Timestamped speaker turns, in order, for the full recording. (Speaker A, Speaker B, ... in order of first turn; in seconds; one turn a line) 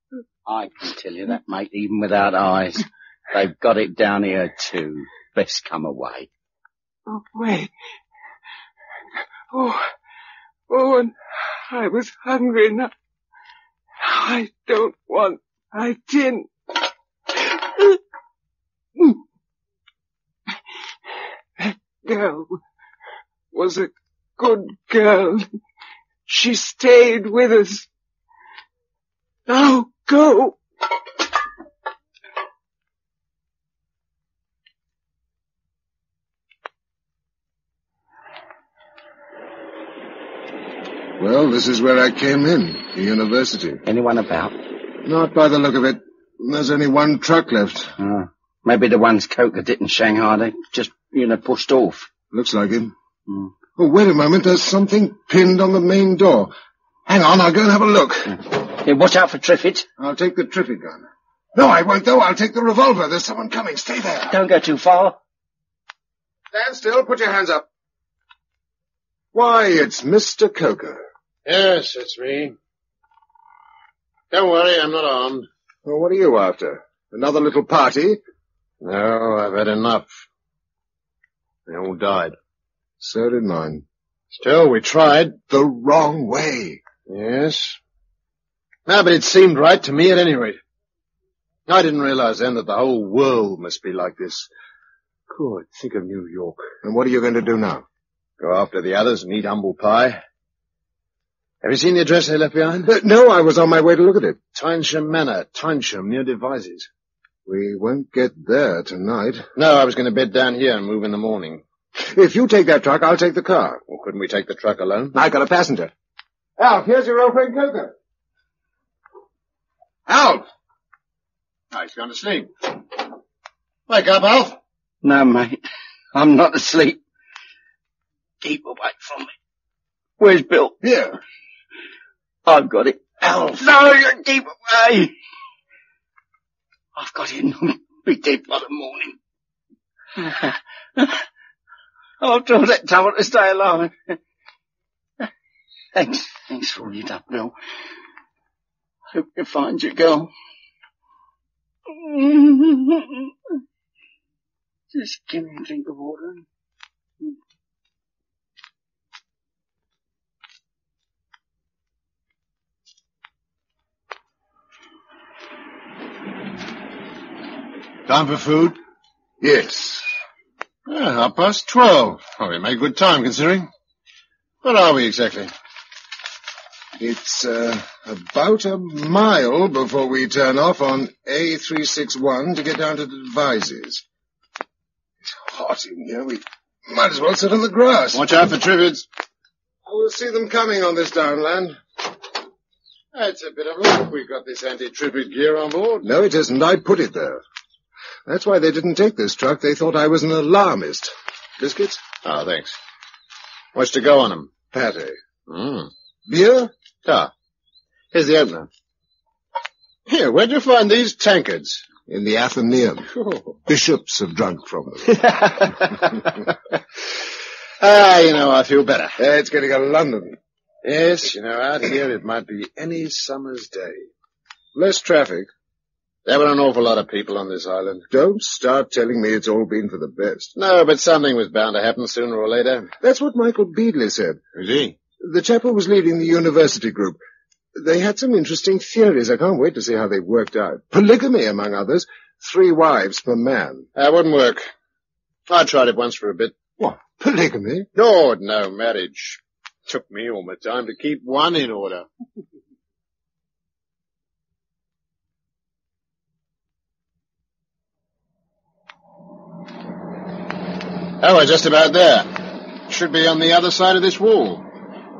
Speaker A: 0.5-6.3
Speaker B: 7.1-7.7
Speaker B: 9.5-9.9
Speaker B: 10.7-12.9
Speaker B: 14.0-16.5
Speaker B: 17.3-18.0
Speaker B: 21.6-22.6
Speaker B: 23.5-25.4
Speaker B: 26.3-27.9
Speaker B: 29.5-30.6
Speaker C: 41.2-43.8
Speaker A: 43.9-44.5
Speaker C: 45.0-47.9
Speaker A: 48.0-52.1
Speaker C: 52.3-52.9
Speaker C: 53.8-56.5
Speaker C: 57.0-58.4
Speaker A: 58.5-59.9
Speaker C: 60.0-64.4
Speaker A: 64.3-65.2
Speaker C: 66.5-67.7
Speaker C: 69.3-71.0
Speaker D: 71.5-72.5
Speaker D: 74.3-75.5
Speaker C: 75.8-78.2
Speaker D: 78.8-80.2
Speaker D: 81.7-82.3
Speaker C: 83.0-83.8
Speaker D: 84.3-85.4
Speaker C: 85.5-86.8
Speaker D: 87.1-87.8
Speaker D: 88.9-90.6
Speaker D: 91.7-94.5
Speaker D: 95.3-96.7
Speaker C: 96.8-97.8
Speaker D: 98.4-100.2
Speaker D: 101.6-102.9
Speaker C: 102.8-104.4
Speaker D: 104.5-106.9
Speaker C: 107.5-109.5
Speaker D: 109.5-111.6
Speaker C: 112.0-113.8
Speaker D: 113.9-115.1
Speaker C: 115.1-115.9
Speaker C: 116.6-117.9
Speaker C: 120.1-120.5
Speaker D: 121.7-122.7
Speaker D: 123.9-124.6
Speaker A: 125.0-125.6
Speaker A: 126.1-127.0
Speaker A: 128.4-129.3
Speaker A: 130.2-130.8
Speaker C: 130.8-131.2
Speaker A: 132.4-135.1
Speaker A: 136.9-139.2
Speaker A: 140.2-141.2
Speaker A: 142.2-144.2
Speaker A: 145.9-147.5
Speaker A: 149.1-150.3
Speaker A: 151.9-153.3
Speaker A: 154.9-156.4
Speaker D: 168.1-168.8
Speaker C: 169.4-170.1
Speaker D: 170.9-173.7
Speaker D: 174.6-175.5
Speaker C: 177.0-184.0
Speaker C: 185.2-188.3
Speaker D: 188.1-189.1
Speaker C: 189.8-191.8
Speaker D: 193.1-196.1
Speaker C: 196.0-197.4
Speaker C: 198.2-202.0
Speaker D: 202.2-202.8
Speaker D: 203.7-204.5
Speaker C: 204.7-205.2
Speaker D: 205.5-205.9
Speaker C: 206.3-206.7
Speaker D: 207.0-207.3
Speaker D: 208.1-208.7
Speaker D: 210.1-211.9
Speaker C: 212.1-213.1
Speaker D: 213.2-213.5
Speaker C: 213.7-215.3
Speaker D: 215.4-216.1
Speaker D: 217.8-219.2
Speaker C: 219.2-220.4
Speaker D: 220.8-224.1
Speaker C: 224.7-225.5
Speaker D: 226.2-228.1
Speaker C: 228.1-230.5
Speaker D: 230.6-232.9
Speaker C: 233.0-234.4
Speaker D: 234.5-235.0
Speaker C: 235.2-237.2
Speaker C: 237.7-243.9
Speaker D: 243.9-244.6
Speaker D: 245.5-246.6
Speaker C: 246.8-247.9
Speaker D: 247.9-252.1
Speaker D: 261.2-264.6